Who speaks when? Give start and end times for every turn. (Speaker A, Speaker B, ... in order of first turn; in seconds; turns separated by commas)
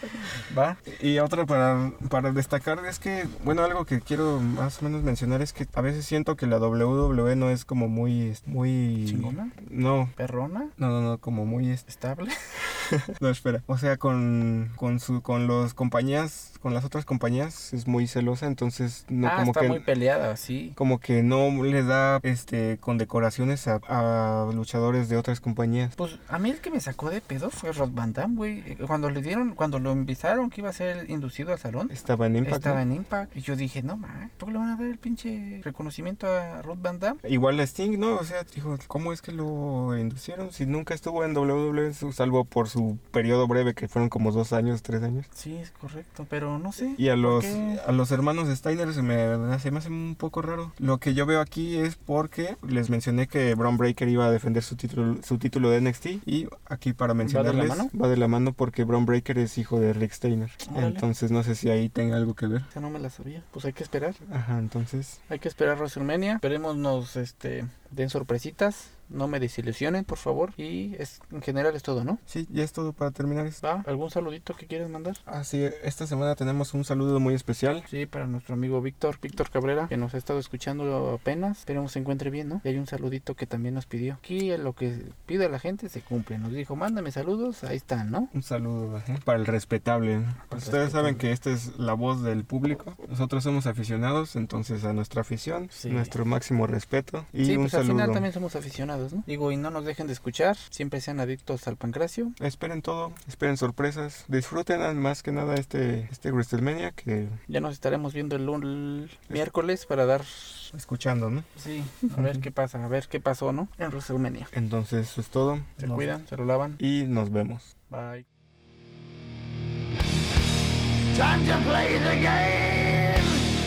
Speaker A: 0.2-0.8, Speaker B: 0.8-10.2, Speaker A: 9.1-9.6, Speaker A: 10.2-10.7, Speaker B: 10.8-11.8, Speaker A: 11.9-12.5, Speaker B: 12.7-19.9, Speaker A: 19.2-20.8, Speaker B: 20.8-25.9, Speaker A: 26.0-37.2, Speaker B: 31.9-32.8, Speaker B: 37.2-45.3, Speaker A: 45.3-47.8, Speaker B: 47.0-62.7, Speaker A: 57.2-57.9, Speaker A: 60.6-61.0, Speaker A: 62.7-64.2, Speaker B: 64.3-65.2, Speaker A: 65.3-72.2, Speaker B: 72.3-73.6, Speaker A: 73.6-75.2, Speaker B: 75.3-77.9, Speaker A: 77.9-88.3, Speaker B: 88.3-98.3, Speaker A: 90.5-91.2, Speaker A: 95.7-96.2, Speaker A: 97.4-102.4, Speaker B: 102.4-107.4, Speaker A: 107.5-110.7, Speaker B: 110.7-111.5, Speaker A: 111.5-114.5, Speaker B: 112.2-112.5, Speaker B: 114.5-116.2, Speaker A: 115.8-116.8, Speaker B: 116.8-117.7, Speaker A: 117.9-118.2